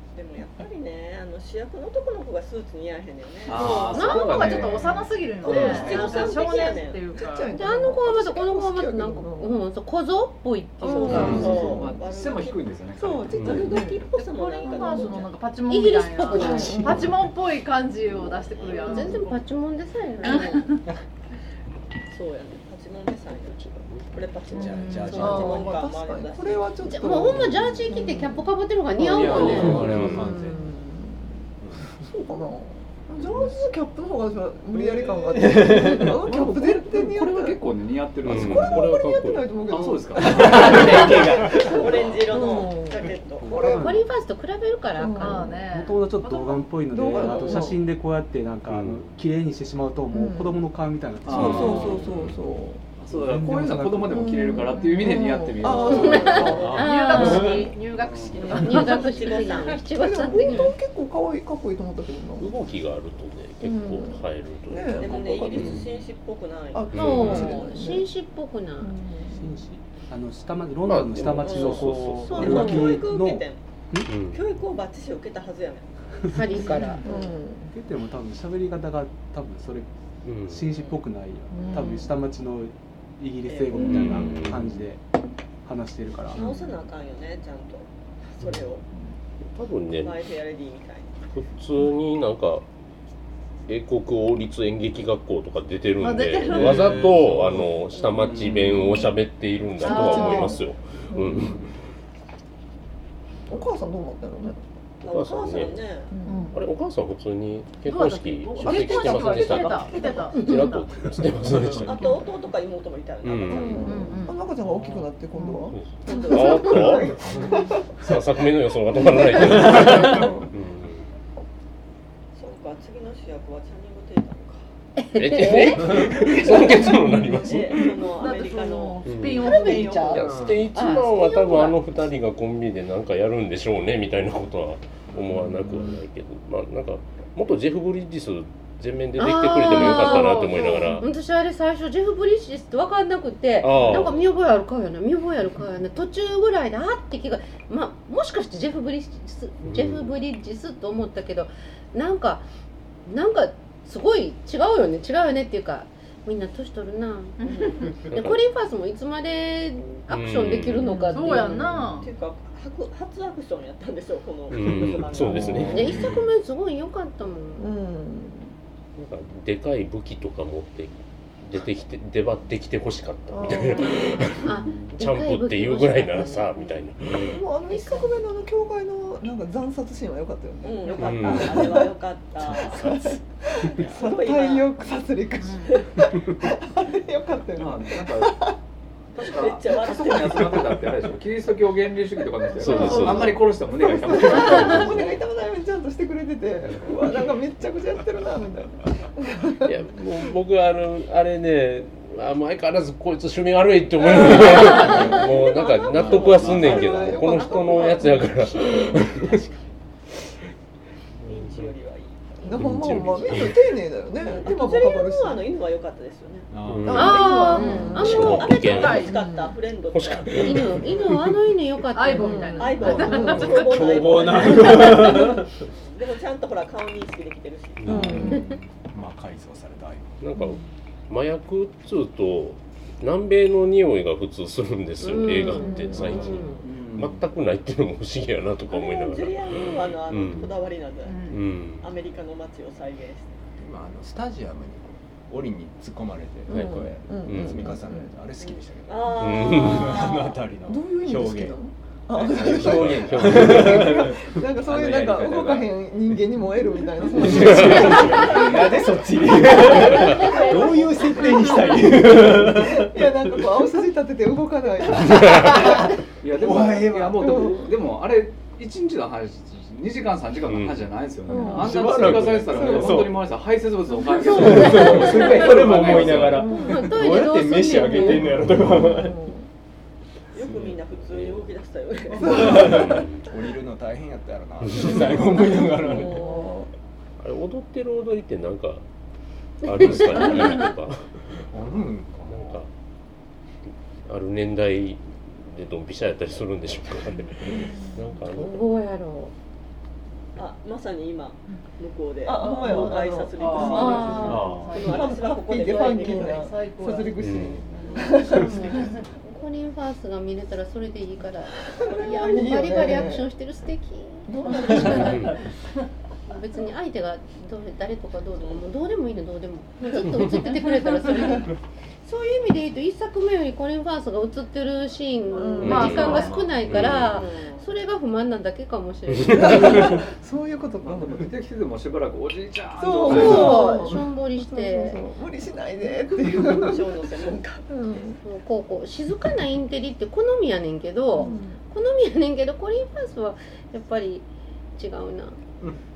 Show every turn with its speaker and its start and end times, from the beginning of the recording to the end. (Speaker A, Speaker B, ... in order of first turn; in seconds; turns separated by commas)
Speaker A: 0.1-4.5, Speaker B: 3.5-6.2, Speaker C: 3.5-7.6, Speaker A: 5.4-7.1, Speaker D: 5.5-5.8, Speaker E: 5.5-6.0, Speaker D: 7.1-9.6, Speaker F: 7.5-11.6, Speaker D: 10.8-11.9, Speaker A: 10.8-12.7, Speaker E: 11.1-11.8, Speaker B: 11.2-13.3, Speaker D: 12.9-14.1, Speaker G: 13.3-13.7, Speaker A: 13.3-15.3, Speaker C: 14.2-19.4, Speaker D: 14.6-15.2, Speaker F: 15.7-17.0, Speaker D: 16.4-17.1, Speaker A: 18.3-19.2, Speaker F: 18.8-20.7, Speaker C: 20.2-20.8, Speaker A: 22.1-26.9, Speaker G: 23.5-24.1, Speaker E: 24.5-25.7, Speaker C: 24.5-25.7, Speaker D: 25.1-37.6, Speaker F: 26.9-30.1, Speaker E: 27.3-27.8, Speaker E: 28.9-30.8, Speaker G: 29.6-30.2, Speaker E: 31.6-31.9, Speaker E: 34.9-36.3, Speaker B: 36.2-38.8, Speaker G: 38.2-39.5, Speaker D: 38.2-44.0, Speaker B: 39.7-41.1, Speaker E: 40.1-42.4, Speaker A: 40.7-43.7, Speaker H: 43.5-44.0, Speaker F: 43.6-45.6, Speaker D: 45.0-45.6, Speaker C: 45.1-47.6, Speaker H: 45.6-52.0, Speaker D: 46.9-47.8, Speaker G: 48.7-49.2, Speaker D: 50.1-50.6, Speaker B: 51.2-52.1, Speaker D: 51.2-52.8, Speaker E: 51.5-52.1, Speaker B: 53.0-56.7, Speaker H: 53.1-54.4, Speaker D: 54.0-56.7, Speaker F: 55.8-57.7, Speaker A: 55.9-56.7, Speaker C: 56.1-59.8, Speaker E: 56.4-57.7, Speaker B: 57.9-58.6, Speaker A: 58.3-60.6, Speaker F: 58.5-60.7, Speaker D: 59.9-62.6, Speaker G: 62.4-65.8, Speaker D: 63.6-65.9, Speaker A: 64.9-67.8, Speaker D: 66.7-68.1, Speaker G: 66.9-67.6, Speaker F: 66.9-68.9, Speaker D: 68.8-69.6, Speaker H: 69.3-74.1, Speaker G: 70.8-73.0, Speaker A: 71.4-73.6, Speaker G: 74.0-74.4, Speaker A: 74.2-76.4, Speaker F: 76.3-77.0, Speaker D: 76.6-77.7, Speaker H: 77.7-79.9, Speaker G: 80.2-80.8, Speaker H: 80.4-85.0, Speaker D: 81.5-81.8, Speaker C: 81.6-82.1, Speaker A: 83.4-84.5, Speaker G: 83.8-84.8, Speaker H: 85.6-86.4, Speaker A: 86.3-88.8, Speaker G: 89.5-90.2, Speaker A: 90.0-91.2, Speaker G: 91.3-92.6, Speaker G: 93.7-101.7, Speaker C: 96.0-97.1, Speaker E: 96.6-97.7, Speaker B: 98.2-98.8, Speaker C: 99.8-100.6, Speaker D: 99.8-101.5, Speaker E: 101.3-101.7, Speaker D: 103.5-104.6, Speaker A: 105.0-106.1, Speaker G: 105.0-105.9, Speaker D: 106.1-106.5, Speaker C: 106.2-106.6, Speaker G: 106.5-112.2, Speaker C: 107.8-110.9, Speaker D: 108.6-110.4, Speaker E: 111.5-111.9, Speaker A: 111.8-114.1, Speaker G: 113.2-113.9, Speaker D: 113.5-118.2, Speaker C: 113.8-114.4, Speaker E: 114.6-115.0, Speaker G: 115.7-117.3, Speaker A: 116.1-116.8, Speaker E: 117.2-117.5, Speaker G: 118.0-121.1, Speaker D: 118.9-120.5, Speaker E: 119.6-120.0, Speaker A: 122.3-124.6, Speaker F: 125.0-126.2, Speaker G: 125.1-128.0, Speaker D: 126.2-127.2, Speaker A: 127.4-130.3, Speaker C: 128.1-130.3, Speaker G: 129.0-141.1, Speaker E: 130.1-130.7, Speaker F: 130.7-131.8, Speaker E: 135.1-136.0, Speaker F: 139.2-152.5, Speaker C: 139.7-140.9, Speaker G: 143.6-144.3, Speaker G: 149.6-150.1, Speaker F: 153.1-157.4, Speaker C: 157.4-157.9, Speaker A: 157.5-157.8, Speaker F: 158.0-161.8, Speaker G: 158.1-158.4, Speaker G: 160.1-161.0, Speaker D: 160.9-161.5, Speaker C: 161.0-162.1, Speaker A: 162.0-165.9, Speaker G: 164.5-166.1, Speaker E: 165.1-166.2, Speaker F: 165.7-167.7, Speaker D: 167.6-168.5, Speaker G: 168.9-177.4, Speaker D: 173.3-174.3, Speaker F: 173.8-176.5, Speaker D: 177.2-181.9, Speaker A: 180.6-183.1, Speaker G: 181.0-181.9, Speaker D: 182.5-188.6, Speaker A: 183.6-184.7, Speaker C: 185.4-185.7, Speaker B: 187.6-188.5, Speaker B: 189.1-195.1, Speaker A: 189.2-190.7, Speaker G: 192.6-193.5, Speaker C: 192.7-193.2, Speaker D: 192.7-199.8, Speaker G: 194.3-195.1, Speaker G: 199.6-209.5, Speaker A: 204.0-209.5, Speaker E: 204.8-205.2, Speaker E: 205.9-206.9, Speaker D: 206.6-208.2, Speaker A: 211.2-213.5, Speaker D: 212.4-215.5, Speaker G: 212.6-213.6, Speaker A: 214.2-216.5, Speaker E: 216.5-217.1, Speaker G: 216.7-217.4, Speaker D: 216.8-218.5, Speaker F: 216.9-218.5, Speaker C: 217.1-219.2, Speaker A: 217.6-220.6, Speaker G: 217.9-219.2, Speaker D: 219.0-219.6, Speaker G: 219.9-221.1, Speaker F: 220.4-223.2, Speaker C: 221.9-223.9, Speaker D: 222.1-223.6, Speaker A: 222.6-228.1, Speaker E: 223.2-225.6, Speaker G: 227.8-228.2, Speaker E: 227.8-230.2, Speaker D: 227.9-228.4, Speaker G: 230.2-240.6, Speaker F: 235.0-236.6, Speaker D: 235.5-236.4, Speaker B: 236.6-237.2, Speaker A: 238.7-243.4, Speaker C: 241.0-241.4, Speaker G: 241.3-241.9, Speaker E: 243.6-251.6, Speaker D: 246.5-248.1, Speaker G: 246.5-247.7, Speaker A: 248.4-250.4, Speaker G: 249.1-250.1, Speaker D: 250.7-260.3, Speaker E: 252.2-255.8, Speaker G: 252.2-254.1, Speaker E: 257.0-263.5, Speaker G: 257.4-258.4, Speaker A: 259.6-261.7, Speaker G: 259.9-260.4, Speaker D: 262.0-265.8, Speaker G: 265.0-265.8, Speaker E: 265.3-267.6, Speaker B: 266.2-276.5, Speaker D: 267.1-267.7, Speaker G: 270.4-270.9, Speaker D: 271.3-271.9, Speaker E: 271.4-273.3, Speaker G: 272.0-272.4, Speaker D: 272.5-273.1, Speaker E: 274.2-279.2, Speaker F: 274.6-275.4, Speaker D: 276.3-279.4, Speaker F: 276.5-278.3, Speaker G: 278.4-278.7, Speaker A: 280.3-282.9, Speaker E: 280.4-280.7, Speaker G: 281.0-281.5, Speaker D: 282.1-282.8, Speaker G: 282.2-283.3, Speaker E: 282.3-286.2, Speaker G: 284.7-285.1, Speaker D: 285.3-286.7, Speaker A: 285.5-286.6, Speaker G: 287.2-288.8, Speaker G: 289.6-291.5, Speaker E: 289.8-290.5, Speaker C: 290.2-290.7, Speaker E: 291.5-292.6, Speaker G: 292.2-292.7, Speaker G: 294.0-298.7, Speaker F: 298.3-299.3, Speaker A: 300.4-306.5, Speaker D: 302.2-308.9, Speaker C: 302.3-307.3, Speaker F: 303.6-304.5, Speaker E: 304.4-304.6, Speaker G: 307.2-307.6, Speaker A: 307.8-308.4, Speaker F: 308.1-315.3, Speaker D: 311.7-313.3, Speaker A: 311.8-312.9, Speaker D: 314.3-315.4, Speaker G: 314.9-315.4, Speaker F: 316.3-321.5, Speaker A: 318.4-318.6, Speaker F: 322.0-330.0, Speaker D: 325.3-326.2, Speaker C: 325.6-326.4, Speaker G: 325.6-327.2, Speaker A: 327.0-327.7, Speaker G: 329.1-330.0, Speaker D: 329.3-331.3, Speaker B: 330.8-333.8, Speaker D: 332.8-337.1, Speaker F: 333.0-335.0, Speaker A: 336.3-338.0, Speaker D: 337.7-338.2, Speaker F: 338.2-345.4, Speaker D: 341.1-341.6